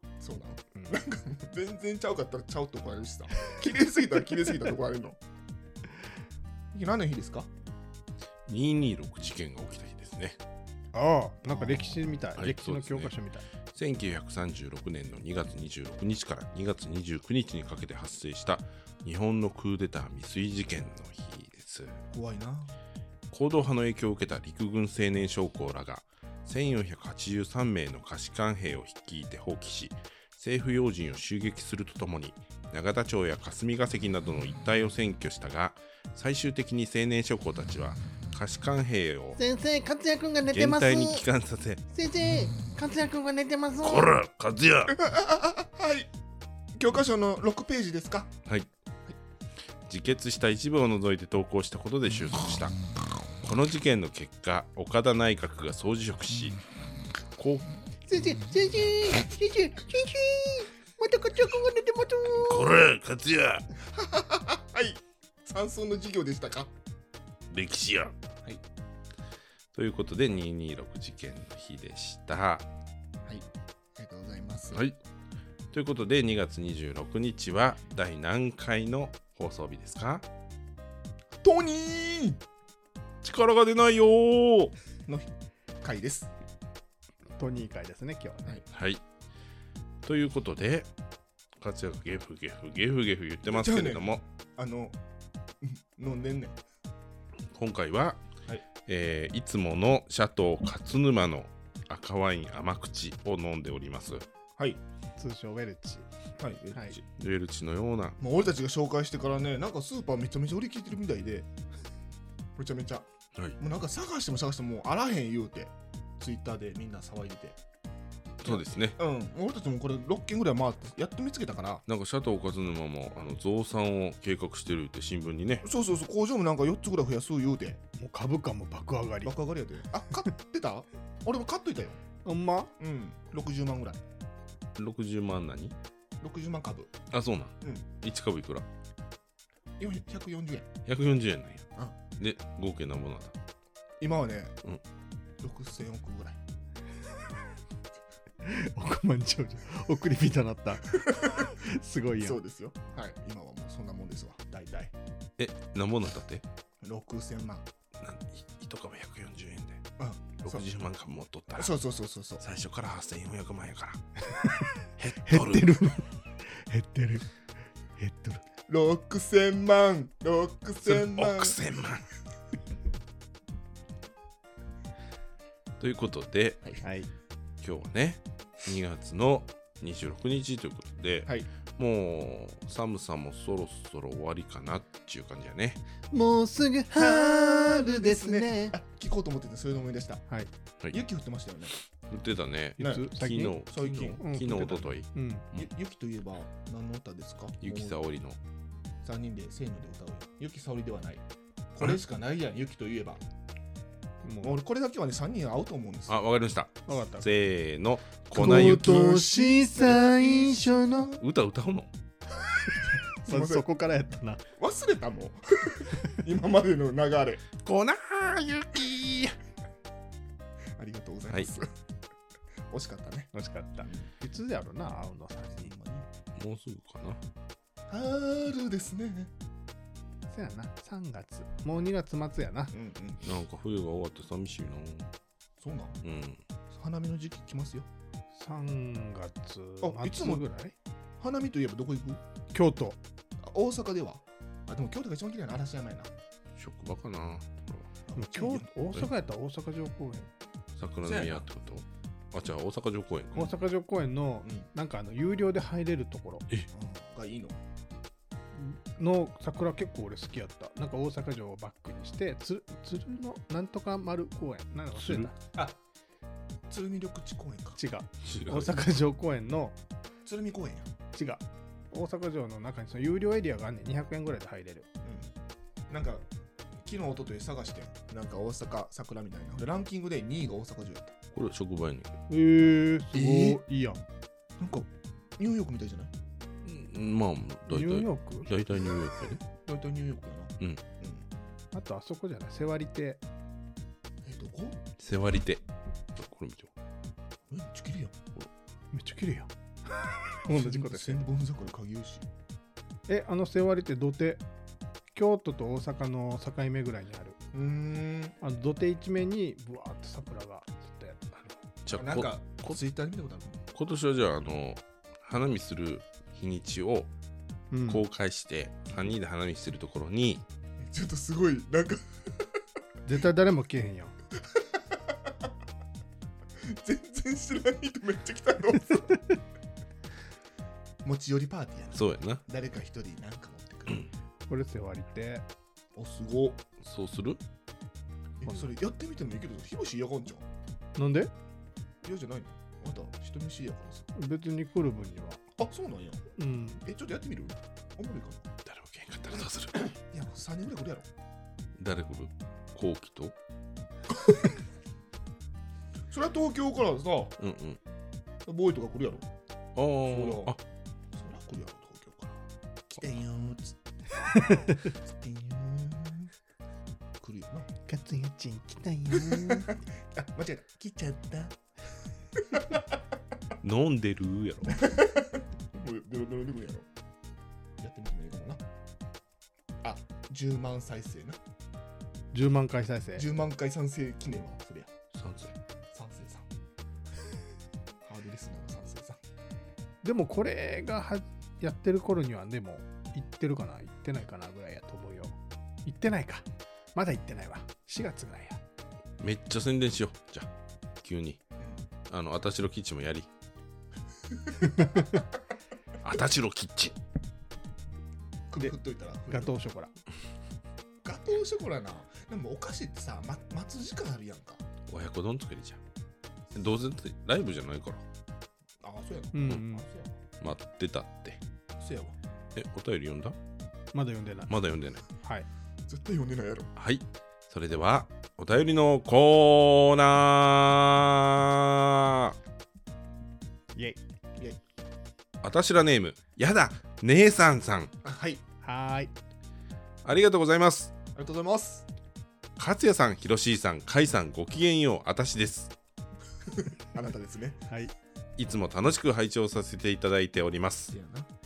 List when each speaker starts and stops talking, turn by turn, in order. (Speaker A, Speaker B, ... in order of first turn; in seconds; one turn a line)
Speaker A: 0.2-5.2
Speaker A: 6.7-7.5
Speaker B: 8.5-10.4
Speaker C: 10.9-13.4
Speaker A: 11.5-12.1
Speaker B: 12.3-13.1
Speaker B: 13.7-22.0
Speaker A: 22.1-22.8
Speaker B: 23.3-39.4
Speaker C: 39.4-41.2
Speaker B: 40.5-41.8
Speaker C: 41.9-44.1
Speaker B: 43.8-45.0
Speaker A: 44.9-46.1
Speaker A: 46.8-48.3
Speaker B: 49.9-52.8
Speaker B: 53.4-56.6
Speaker B: 57.4-57.7
Speaker C: 58.1-62.7
Speaker B: 62.3-63.7
Speaker A: 63.9-66.7
Speaker B: 67.5-68.2
Speaker B: 69.7-72.7
Speaker A: 73.2-74.8
Speaker B: 74.7-75.0
Speaker B: 75.7-80.3
Speaker A: 81.3-82.4
Speaker B: 83.2-84.8
Speaker A: 85.1-85.3
Speaker A: 85.8-86.3
Speaker C: 87.4-88.5
Speaker B: 88.7-89.0
Speaker B: 90.0-90.9
Speaker B: 91.6-94.2
Speaker A: 93.5-95.0
Speaker A: 95.6-96.6
Speaker B: 97.5-98.2
Speaker B: 98.9-104.3
Speaker A: 104.6-104.8
Speaker C: 105.2-106.1
Speaker A: 106.4-107.0
Speaker C: 106.7-107.0
Speaker B: 107.2-108.2
Speaker A: 108.2-111.5
Speaker A: 112.6-113.1
Speaker A: 113.6-117.6
Speaker B: 118.4-119.0
Speaker A: 118.5-121.8
Speaker B: 121.9-125.7
Speaker A: 125.6-127.8
Speaker C: 128.0-129.3
Speaker A: 129.2-132.0
Speaker C: 132.2-132.7
Speaker A: 132.8-134.0
Speaker B: 134.8-135.8
Speaker A: 136.2-137.0
Speaker B: 137.1-138.7
Speaker A: 139.8-140.7
Speaker B: 140.9-143.3
Speaker A: 141.8-142.0
Speaker A: 144.0-144.6
Speaker A: 145.4-146.4
Speaker C: 148.4-152.4
Speaker A: 151.0-151.5
Speaker A: 152.2-154.9
Speaker B: 155.4-156.4
Speaker A: 156.8-157.7
Speaker B: 158.0-159.9
Speaker A: 160.0-160.7
Speaker B: 160.4-161.7
Speaker A: 161.5-162.4
Speaker B: 162.4-164.2
Speaker B: 165.0-165.9
Speaker C: 165.2-167.3
Speaker C: 168.0-168.4
Speaker A: 168.7-171.6
Speaker B: 170.8-172.1
Speaker B: 175.8-176.6
Speaker C: 176.8-177.1
Speaker B: 177.6-185.8
Speaker C: 186.1-188.8
Speaker A: 186.9-190.2
Speaker A: 190.9-191.7
Speaker B: 192.1-195.6
Speaker C: 192.8-195.5
Speaker A: 192.8-194.2
Speaker A: 195.5-198.0
Speaker B: 197.6-198.4
Speaker A: 199.0-203.2
Speaker C: 204.2-204.6
Speaker A: 204.4-206.2
Speaker B: 206.1-209.0
Speaker C: 206.9-207.4
Speaker A: 208.3-211.2
Speaker C: 208.3-211.1
Speaker B: 211.2-211.9
Speaker A: 212.8-213.7
Speaker C: 213.2-214.4
Speaker A: 214.6-217.4
Speaker B: 217.6-219.4
Speaker A: 220.8-221.7
Speaker A: 222.7-223.3
Speaker C: 223.3-225.7
Speaker A: 223.8-224.1
Speaker A: 225.5-226.1
Speaker B: 226.3-227.2
Speaker A: 227.9-229.3
Speaker C: 230.3-232.8
Speaker A: 232.7-233.4
Speaker B: 233.2-235.1
Speaker A: 235.6-236.0
Speaker B: 236.0-236.4
Speaker A: 236.7-237.9
Speaker C: 238.3-240.8
Speaker A: 239.8-240.5
Speaker A: 241.2-242.2
Speaker C: 242.5-243.0
Speaker A: 243.4-246.1
Speaker B: 246.6-247.9
Speaker A: 248.1-248.7
Speaker C: 248.2-250.3
Speaker B: 250.8-253.5
Speaker A: 251.0-251.5
Speaker C: 253.3-256.5
Speaker A: 256.7-257.6
Speaker C: 258.5-265.4
Speaker B: 264.9-265.3
Speaker A: 266.7-267.8
Speaker C: 267.8-269.8
Speaker B: 268.2-268.8
Speaker A: 270.2-270.9
Speaker C: 271.1-274.9
Speaker A: 275.0-275.3
Speaker A: 275.9-281.1
Speaker B: 281.3-282.1
Speaker C: 282.3-284.0
Speaker A: 283.1-283.6
Speaker A: 284.6-286.1
Speaker B: 286.6-289.4
Speaker C: 287.7-288.5
Speaker A: 289.5-291.3
Speaker C: 291.7-293.2
Speaker A: 294.2-294.8
Speaker B: 295.0-296.7
Speaker A: 297.5-298.2
Speaker C: 298.9-299.5
Speaker C: 300.4-301.3
Speaker A: 300.4-302.3
Speaker C: 303.1-304.4
Speaker C: 305.1-307.4
Speaker A: 307.5-308.4
Speaker C: 308.4-311.6
Speaker B: 311.9-312.8
Speaker A: 311.9-313.6
Speaker B: 313.7-317.1
Speaker C: 317.7-318.0
Speaker B: 317.9-320.4
Speaker A: 320.8-322.5
Speaker C: 323.1-324.1
Speaker A: 324.5-325.3
Speaker A: 326.6-329.2
Speaker C: 329.0-329.3
Speaker A: 331.0-334.1
Speaker B: 331.9-332.4
Speaker C: 334.5-335.5
Speaker A: 335.9-336.6
Speaker B: 336.8-337.4
Speaker A: 338.4-340.4
Speaker C: 341.0-341.3
Speaker A: 342.0-344.1
Speaker C: 344.1-345.4
Speaker A: 345.6-346.2
Speaker C: 346.4-346.8
Speaker A: 346.8-348.5
Speaker B: 348.6-349.9
Speaker A: 350.0-351.1
Speaker B: 351.8-353.4
Speaker A: 354.1-354.6
Speaker A: 356.1-357.4
Speaker B: 357.4-357.8
Speaker A: 358.5-359.3
Speaker B: 359.8-360.6
Speaker A: 360.0-360.6
Speaker A: 361.1-363.8
Speaker C: 364.3-364.9
Speaker A: 364.8-366.3
Speaker A: 367.2-367.7
Speaker C: 367.9-369.8
Speaker A: 369.1-371.6
Speaker A: 372.4-373.0
Speaker B: 373.6-374.8
Speaker A: 374.7-376.9
Speaker A: 377.8-378.6
Speaker A: 379.8-381.4
Speaker C: 382.3-383.3
Speaker A: 383.2-384.9
Speaker B: 385.1-385.6
Speaker A: 385.9-386.5
Speaker A: 388.0-389.2
Speaker C: 390.0-398.6
Speaker B: 399.2-400.5
Speaker B: 401.0-401.4
Speaker B: 402.1-403.3
Speaker C: 404.7-405.2
Speaker B: 406.0-407.0
Speaker A: 408.5-409.6
Speaker C: 409.3-409.9
Speaker A: 411.0-414.7
Speaker B: 414.9-415.8
Speaker B: 416.5-418.0
Speaker A: 418.8-420.2
Speaker C: 419.3-419.9
Speaker B: 420.4-421.4
Speaker A: 421.8-422.2
Speaker B: 422.6-423.4
Speaker C: 423.9-424.5
Speaker B: 424.5-425.1
Speaker C: 425.2-425.5
Speaker A: 425.9-426.7
Speaker B: 426.8-432.4
Speaker B: 435.4-437.9
Speaker A: 438.0-438.4
Speaker C: 438.6-439.1
Speaker B: 440.1-440.9
Speaker A: 441.1-441.9
Speaker B: 442.6-445.7
Speaker A: 446.5-447.6
Speaker B: 448.4-450.9
Speaker A: 450.9-451.3